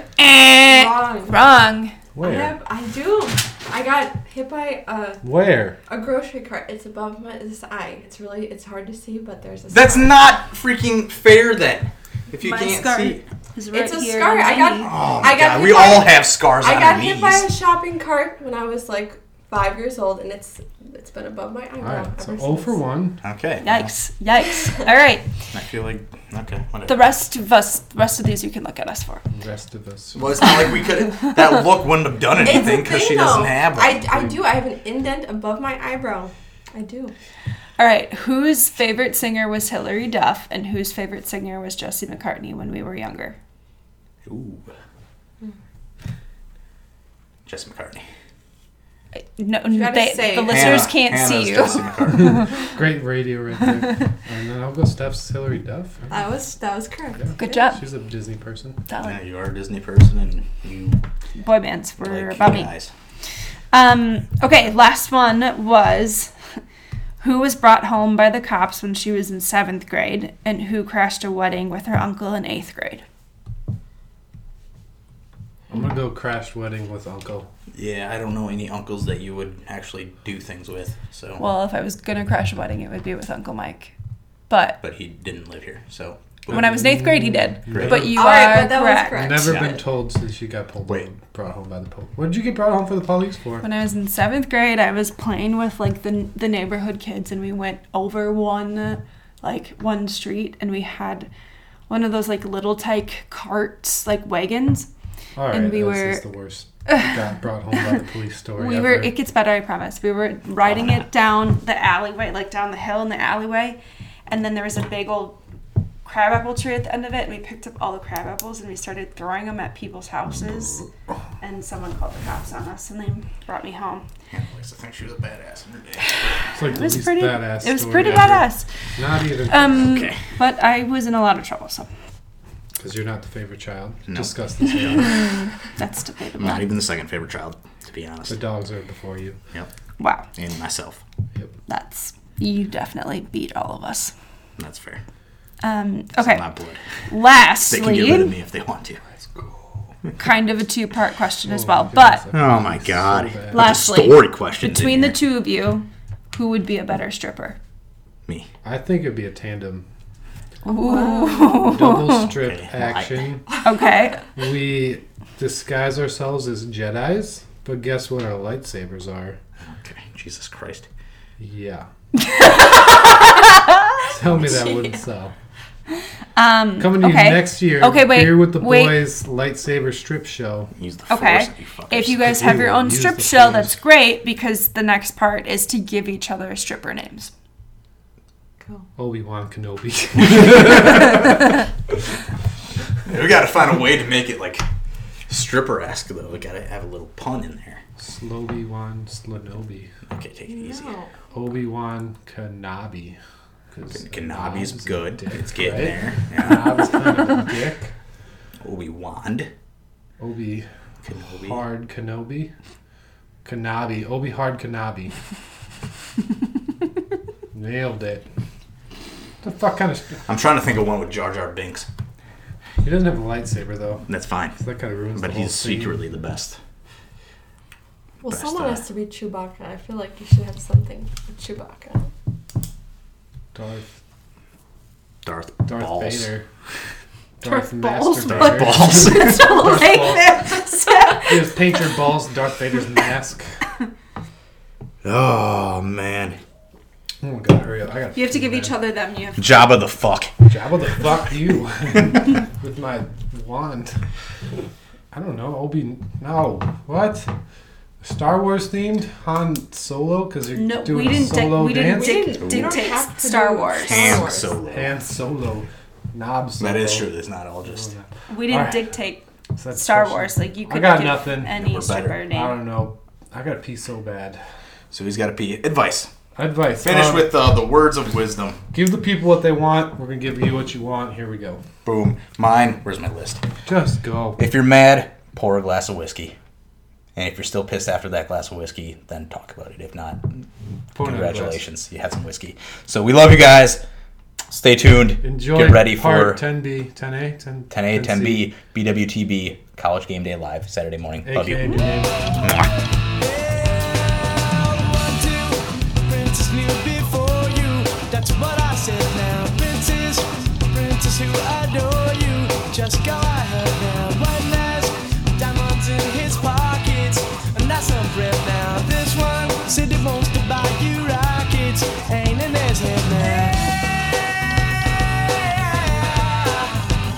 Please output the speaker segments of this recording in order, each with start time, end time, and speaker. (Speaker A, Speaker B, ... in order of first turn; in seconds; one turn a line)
Speaker A: 0.2-2.0
Speaker B: 0.6-1.5
Speaker C: 2.1-2.5
Speaker B: 2.2-5.2
Speaker C: 5.2-5.8
Speaker B: 5.9-10.1
Speaker D: 9.7-13.2
Speaker A: 12.4-14.9
Speaker B: 13.7-22.8
Speaker D: 14.8-17.5
Speaker C: 21.8-23.2
Speaker D: 23.2-23.9
Speaker A: 23.6-25.3
Speaker D: 25.5-27.1
Speaker A: 26.9-29.2
Speaker C: 29.3-30.2
Speaker D: 30.1-34.4
Speaker B: 32.4-37.1
Speaker A: 37.8-43.4
Speaker D: 44.2-44.7
Speaker D: 47.5-48.1
Speaker A: 49.2-52.6
Speaker B: 49.7-50.9
Speaker D: 50.5-52.5
Speaker C: 52.3-56.2
Speaker B: 56.1-57.7
Speaker C: 57.2-58.8
Speaker A: 57.4-57.8
Speaker A: 58.9-59.2
Speaker D: 59.0-61.0
Speaker A: 61.4-62.7
Speaker D: 62.0-62.9
Speaker A: 63.7-66.3
Speaker A: 67.2-73.0
Speaker C: 75.7-77.5
Speaker D: 77.7-81.4
Speaker A: 81.4-83.9
Speaker A: 84.5-84.8
Speaker D: 84.8-86.9
Speaker A: 86.5-89.3
Speaker C: 86.5-88.3
Speaker D: 87.7-88.1
Speaker B: 88.1-89.7
Speaker C: 89.1-93.7
Speaker D: 89.4-89.8
Speaker A: 93.6-101.3
Speaker A: 101.9-104.9
Speaker C: 105.4-109.1
Speaker A: 105.5-106.2
Speaker A: 108.6-115.4
Speaker A: 116.0-120.9
Speaker A: 121.4-124.1
Speaker D: 124.3-126.2
Speaker C: 126.5-129.9
Speaker A: 126.7-128.7
Speaker A: 129.5-131.9
Speaker D: 129.6-130.2
Speaker C: 132.8-135.4
Speaker A: 135.0-136.7
Speaker D: 136.4-138.4
Speaker C: 138.3-139.4
Speaker A: 140.0-140.3
Speaker D: 140.3-141.0
Speaker A: 141.7-144.1
Speaker D: 144.6-145.0
Speaker A: 145.6-146.5
Speaker D: 146.2-146.8
Speaker A: 147.1-148.3
Speaker D: 147.7-149.0
Speaker C: 149.1-149.9
Speaker A: 150.2-152.2
Speaker C: 151.4-153.8
Speaker D: 152.3-155.2
Speaker A: 153.5-157.6
Speaker C: 158.6-159.9
Speaker A: 160.7-162.3
Speaker B: 160.7-161.7
Speaker C: 161.6-163.5
Speaker D: 162.1-163.3
Speaker A: 163.6-164.3
Speaker C: 164.3-169.4
Speaker D: 169.7-170.9
Speaker C: 171.4-171.9
Speaker A: 172.2-174.0
Speaker C: 174.1-175.3
Speaker B: 174.4-175.0
Speaker A: 176.3-179.0
Speaker C: 176.8-180.7
Speaker D: 180.7-182.3
Speaker A: 181.1-187.3
Speaker C: 182.2-183.8
Speaker C: 189.0-191.3
Speaker D: 193.1-194.7
Speaker D: 195.3-197.8
Speaker C: 198.0-199.9
Speaker D: 200.1-200.9
Speaker B: 200.5-201.1
Speaker C: 201.3-203.2
Speaker C: 203.7-207.9
Speaker D: 203.9-206.9
Speaker D: 208.6-209.5
Speaker C: 210.2-210.7
Speaker D: 211.0-211.6
Speaker C: 211.4-212.5
Speaker C: 213.4-215.2
Speaker C: 217.5-218.3
Speaker C: 219.4-220.2
Speaker D: 220.3-221.9
Speaker C: 222.8-224.1
Speaker D: 224.1-224.6
Speaker C: 224.6-226.1
Speaker D: 225.1-226.6
Speaker B: 228.2-232.1
Speaker D: 228.3-228.8
Speaker C: 233.5-234.0
Speaker D: 235.2-236.3
Speaker C: 235.7-236.5
Speaker C: 237.4-240.5
Speaker A: 237.4-241.5
Speaker D: 238.2-239.5
Speaker B: 239.2-240.7
Speaker C: 241.2-243.6
Speaker D: 245.0-246.4
Speaker C: 247.2-248.8
Speaker A: 248.2-249.7
Speaker D: 249.4-250.3
Speaker C: 250.5-254.0
Speaker C: 255.1-257.3
Speaker C: 258.0-262.3
Speaker A: 260.5-264.3
Speaker B: 261.8-264.5
Speaker D: 262.4-262.9
Speaker D: 263.8-265.0
Speaker C: 264.7-267.1
Speaker D: 266.6-267.9
Speaker C: 267.6-268.9
Speaker A: 268.3-272.6
Speaker C: 269.6-271.6
Speaker D: 271.5-272.2
Speaker C: 272.3-274.4
Speaker D: 274.9-276.1
Speaker C: 276.4-277.3
Speaker D: 276.8-278.6
Speaker C: 278.7-281.6
Speaker D: 281.9-283.4
Speaker C: 283.7-284.4
Speaker D: 284.4-286.4
Speaker D: 287.1-290.3
Speaker C: 290.9-291.6
Speaker D: 291.0-293.8
Speaker D: 294.5-296.4
Speaker C: 295.2-298.5
Speaker D: 297.7-301.8
Speaker C: 301.2-302.3
Speaker D: 302.4-302.7
Speaker E: 303.1-326.9